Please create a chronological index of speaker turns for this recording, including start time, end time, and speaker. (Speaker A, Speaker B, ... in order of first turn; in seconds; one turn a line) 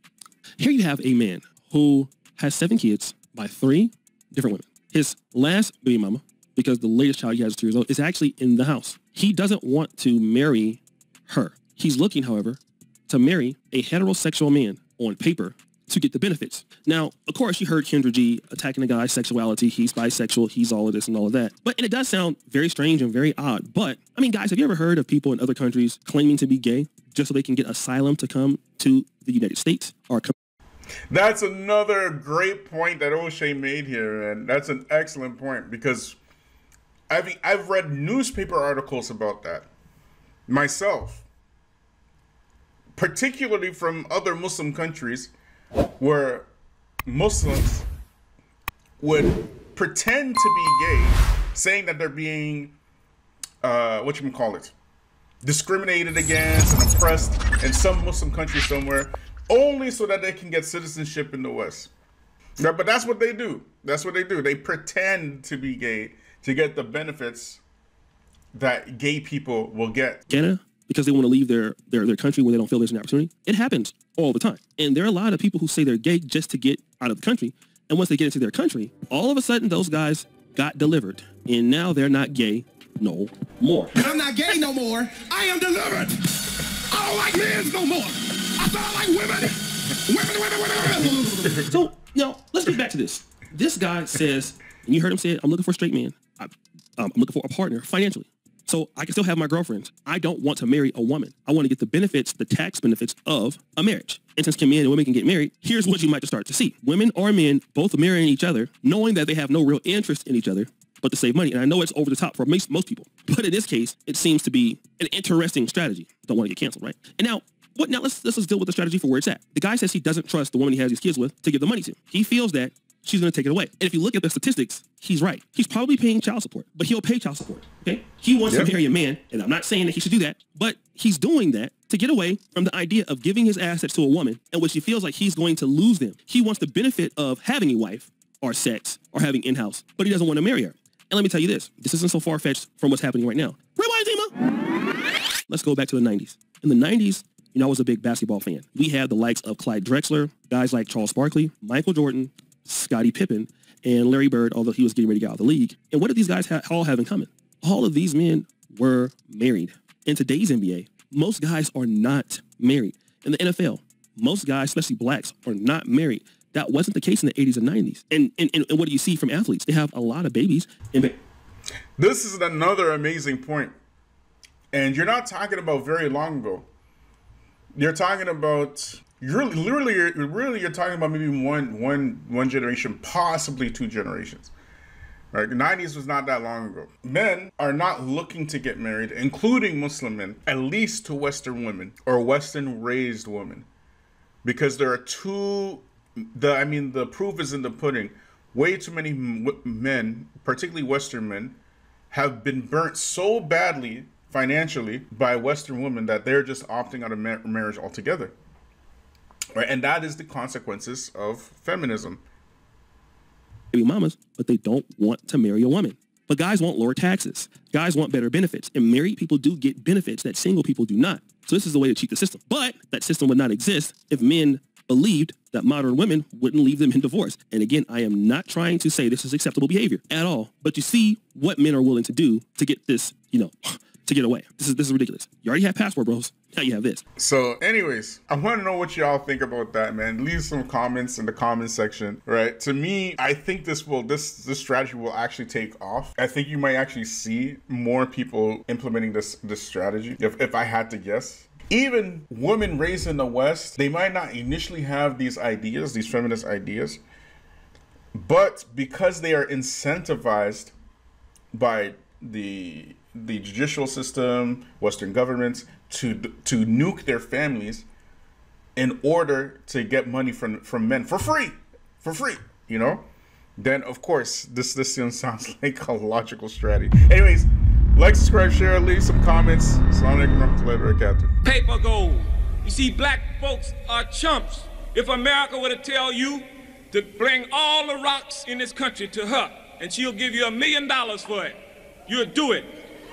Speaker A: 0.6-30.3
Speaker B: 31.1-36.2
Speaker B: 37.1-39.7
Speaker B: 40.5-41.2
Speaker B: 43.0-45.3
Speaker B: 46.0-46.5
Speaker B: 47.0-47.9
Speaker B: 49.0-52.8
Speaker B: 53.6-54.7
Speaker B: 55.4-61.9
Speaker B: 62.6-67.6
Speaker B: 68.5-70.2
Speaker A: 70.3-84.0
Speaker C: 83.9-86.2
Speaker C: 86.9-91.6
Speaker A: 91.6-144.3
Speaker B: 128.5-128.7
Speaker A: 145.5-171.2
Speaker B: 172.0-173.7
Speaker B: 174.7-176.7
Speaker B: 177.8-184.5
Speaker B: 185.3-193.7
Speaker B: 194.4-201.6
Speaker B: 202.1-208.3
Speaker B: 209.5-212.2
Speaker A: 213.7-237.0
Speaker B: 237.2-257.0
Speaker B: 258.1-260.7
Speaker B: 261.5-267.9
Speaker B: 268.8-273.0
Speaker B: 273.6-281.3
Speaker D: 281.4-292.7